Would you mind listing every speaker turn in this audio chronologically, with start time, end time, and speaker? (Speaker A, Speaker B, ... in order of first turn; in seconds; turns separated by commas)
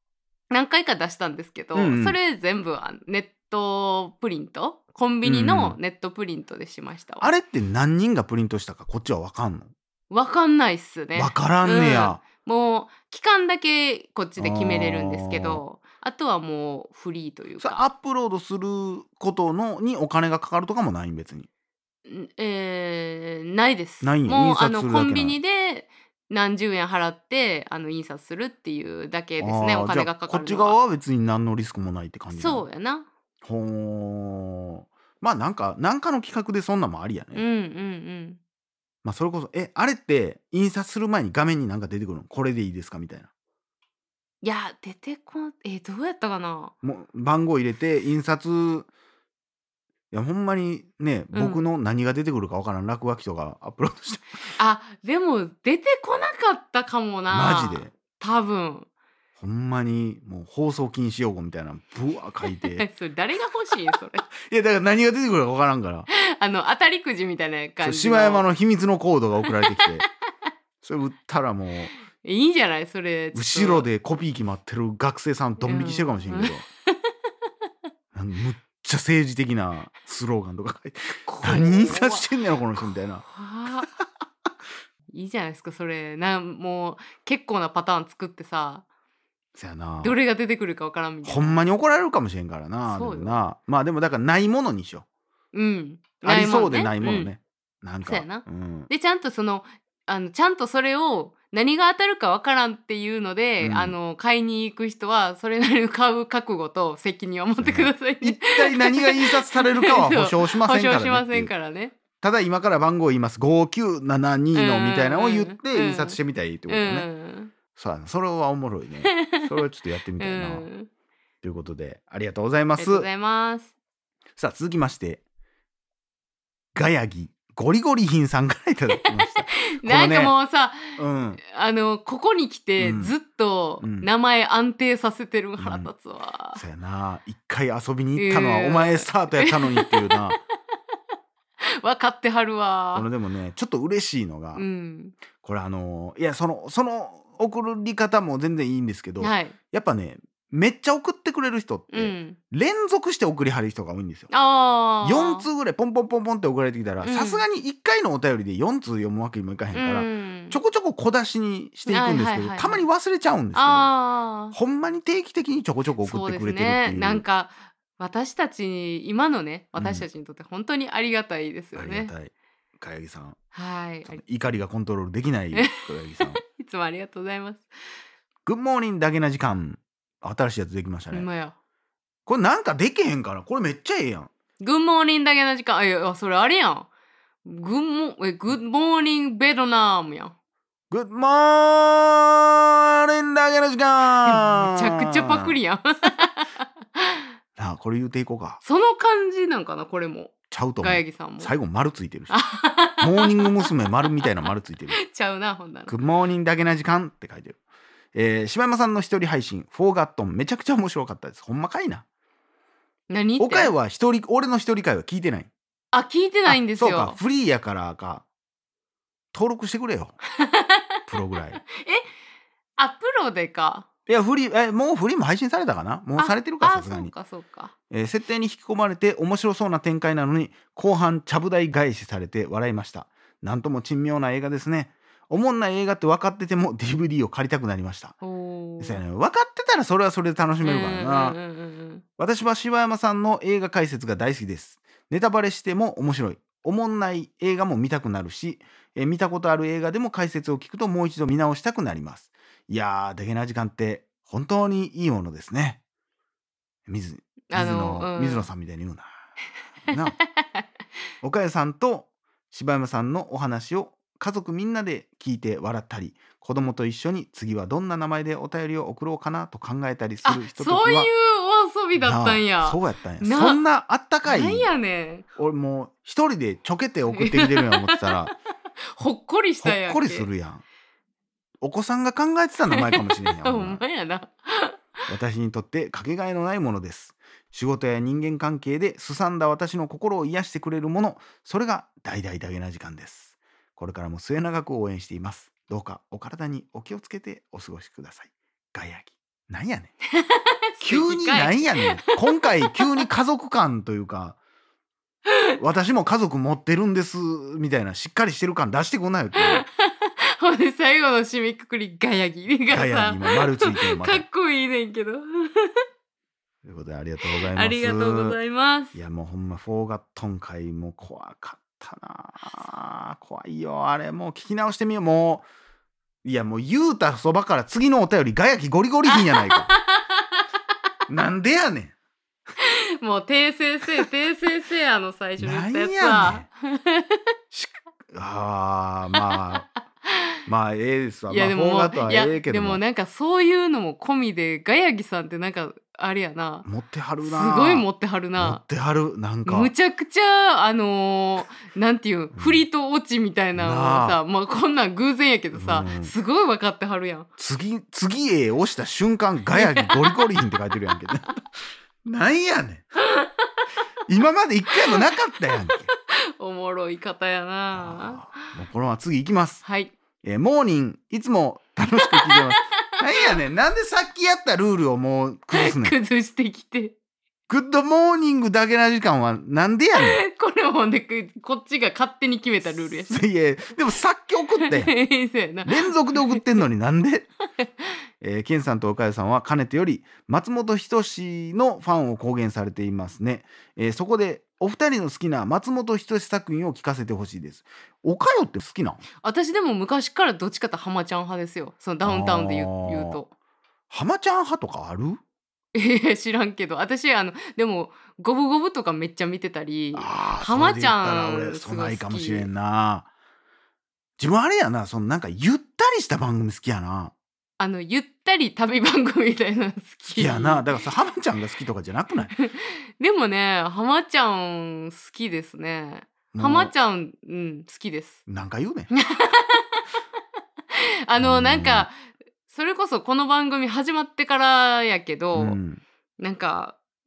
Speaker A: 0.5-7.3, Speaker B: 1.8-2.2, Speaker B: 5.2-5.8, Speaker B: 7.2-9.7, Speaker A: 10.1-17.8, Speaker B: 11.2-12.2, Speaker B: 14.4-15.6, Speaker B: 17.6-21.5, Speaker A: 22.1-30.8, Speaker B: 24.0-25.4, Speaker B: 29.4-32.6, Speaker A: 32.3-33.1, Speaker B: 33.4-37.4, Speaker A: 37.4-38.4, Speaker B: 39.0-43.3, Speaker A: 44.4-46.7, Speaker B: 46.8-48.9, Speaker B: 50.1-54.5, Speaker A: 51.3-51.6, Speaker A: 54.6-58.9, Speaker B: 57.3-57.9, Speaker B: 59.4-62.9, Speaker A: 62.6-64.3, Speaker B: 64.3-66.1, Speaker A: 66.1-68.5, Speaker B: 67.8-70.0, Speaker B: 70.8-71.9, Speaker A: 72.2-73.9, Speaker B: 73.3-76.7, Speaker A: 75.6-77.0, Speaker B: 78.1-83.2, Speaker A: 81.3-82.3, Speaker A: 83.2-83.9, Speaker A: 85.1-88.8, Speaker B: 89.5-90.2, Speaker A: 90.0-91.6, Speaker B: 91.2-95.0, Speaker A: 92.9-93.4, Speaker A: 95.5-97.3, Speaker B: 96.2-98.9, Speaker A: 98.0-112.0, Speaker B: 103.6-104.0, Speaker B: 107.6-111.5, Speaker B: 112.2-117.1, Speaker A: 114.5-117.5, Speaker B: 117.7-120.7, Speaker A: 119.0-119.5, Speaker A: 120.2-120.9, Speaker B: 121.4-123.1, Speaker A: 122.8-123.7, Speaker B: 124.4-125.2, Speaker B: 126.7-130.3, Speaker A: 129.1-136.6, Speaker B: 130.9-131.4, Speaker B: 132.8-133.2, Speaker B: 133.8-134.1, Speaker B: 135.6-135.9, Speaker B: 136.5-140.4, Speaker A: 138.2-140.3, Speaker A: 141.8-143.1, Speaker B: 142.9-144.7, Speaker A: 144.6-145.2, Speaker B: 145.4-154.3, Speaker A: 149.2-149.6, Speaker A: 151.9-152.4, Speaker A: 154.3-155.5, Speaker B: 155.0-163.9, Speaker A: 157.0-157.4, Speaker A: 159.7-160.6, Speaker A: 161.9-162.9, Speaker A: 163.5-164.6, Speaker B: 164.5-167.2, Speaker A: 166.0-172.1, Speaker B: 169.8-170.1, Speaker B: 171.8-173.4, Speaker A: 173.5-174.2, Speaker B: 174.1-176.4, Speaker A: 175.5-177.7, Speaker B: 178.5-181.3, Speaker A: 181.1-181.6, Speaker B: 182.3-184.3, Speaker A: 184.6-186.9, Speaker A: 187.4-190.3, Speaker B: 190.9-195.6, Speaker A: 194.2-197.2, Speaker B: 197.6-198.6, Speaker A: 198.6-201.5, Speaker B: 200.5-202.4, Speaker A: 202.3-203.7, Speaker B: 203.0-205.0, Speaker A: 204.9-205.9, Speaker B: 205.9-207.6, Speaker B: 208.1-212.1, Speaker A: 213.1-213.7, Speaker B: 213.4-215.5, Speaker A: 215.9-217.2, Speaker B: 216.5-218.2, Speaker B: 219.3-220.2, Speaker A: 220.4-220.8, Speaker B: 221.1-221.6, Speaker A: 221.6-222.1, Speaker A: 222.8-223.9, Speaker B: 224.1-227.1, Speaker A: 226.2-227.7, Speaker B: 227.9-238.2, Speaker A: 238.2-239.0, Speaker B: 238.8-241.4, Speaker A: 240.6-242.0, Speaker B: 242.2-255.8, Speaker B: 256.9-259.1, Speaker A: 257.5-258.5, Speaker B: 259.9-260.2, Speaker A: 259.9-260.6, Speaker B: 261.2-271.1, Speaker A: 270.2-273.6, Speaker B: 272.0-274.7, Speaker A: 274.3-275.2, Speaker B: 275.4-278.4, Speaker A: 277.1-278.3, Speaker A: 279.0-280.3, Speaker B: 279.6-280.6, Speaker B: 281.6-283.8, Speaker A: 282.7-284.8, Speaker B: 285.1-299.9, Speaker A: 300.2-302.9, Speaker B: 300.8-304.4, Speaker B: 305.6-309.6, Speaker A: 309.4-315.8, Speaker B: 312.7-314.3, Speaker B: 316.6-318.4, Speaker A: 317.2-319.0, Speaker B: 318.9-325.5, Speaker B: 326.2-329.7, Speaker A: 329.1-330.4, Speaker B: 331.1-331.9, Speaker A: 332.6-337.2, Speaker B: 335.4-336.5, Speaker B: 337.5-339.7, Speaker A: 339.2-339.6, Speaker B: 340.5-342.8, Speaker A: 341.3-346.7, Speaker B: 346.6-347.9, Speaker A: 347.2-348.6, Speaker B: 348.4-349.7, Speaker A: 349.5-357.3, Speaker B: 352.3-352.6, Speaker B: 353.6-354.2, Speaker B: 355.5-356.1, Speaker B: 357.4-361.4, Speaker A: 359.6-360.2, Speaker B: 362.0-362.9, Speaker A: 363.0-363.7, Speaker B: 364.1-365.9, Speaker A: 365.7-368.4, Speaker B: 367.7-369.6, Speaker A: 369.6-369.9, Speaker B: 370.2-375.9, Speaker A: 372.0-373.3, Speaker A: 375.5-376.9, Speaker B: 377.5-380.2, Speaker A: 380.0-383.2, Speaker B: 383.1-384.9, Speaker A: 384.6-386.4, Speaker B: 385.6-387.3, Speaker B: 388.2-399.0, Speaker A: 399.2-403.3, Speaker B: 402.0-403.2, Speaker B: 403.9-405.2, Speaker A: 405.8-412.5, Speaker B: 409.9-413.1, Speaker B: 414.2-417.1, Speaker A: 417.6-420.7, Speaker B: 420.1-422.4, Speaker A: 422.4-428.2, Speaker B: 426.3-426.7, Speaker B: 428.3-428.9, Speaker A: 428.9-429.9, Speaker A: 430.7-435.6, Speaker B: 431.2-431.9, Speaker B: 435.3-435.8, Speaker A: 436.2-436.8